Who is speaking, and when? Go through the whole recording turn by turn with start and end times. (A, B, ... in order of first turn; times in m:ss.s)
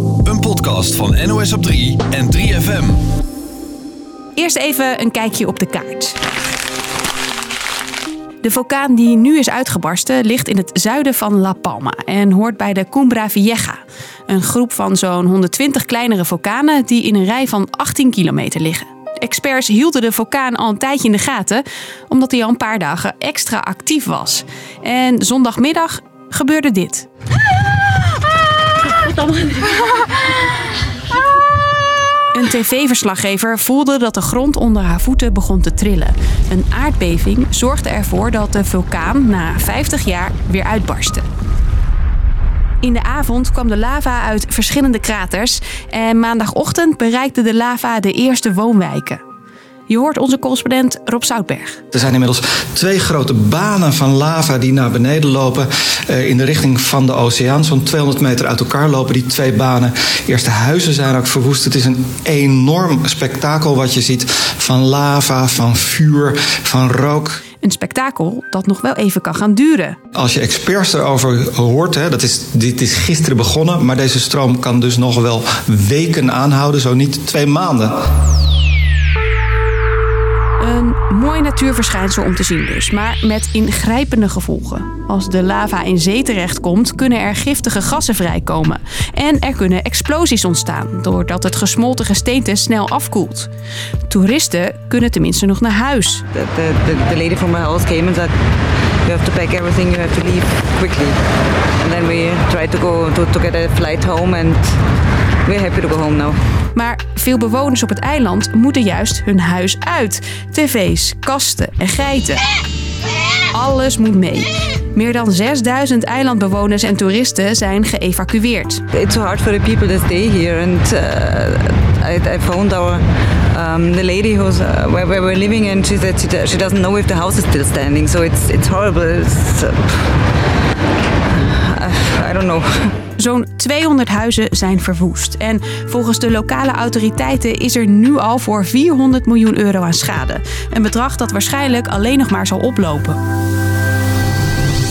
0:00.2-0:03.0 A
0:04.4-0:06.2 B
0:08.4-0:27.1 B
0:32.3-0:41.3 B
0:42.8-0:49.2 B
0:49.9-0:51.8 B
0:51.9-1:07.4 C
1:07.6-1:10.0 B
1:10.2-1:17.9 C
1:20.6-1:33.5 B
1:34.1-1:36.2 B
1:36.3-1:38.3 D
1:39.1-1:41.2 D
1:41.8-1:44.7 D
1:45.5-1:46.4 D
1:46.7-1:52.4 B
1:53.5-1:58.8 B
1:58.9-2:10.1 D
2:11.3-2:13.0 D
2:13.2-2:23.2 B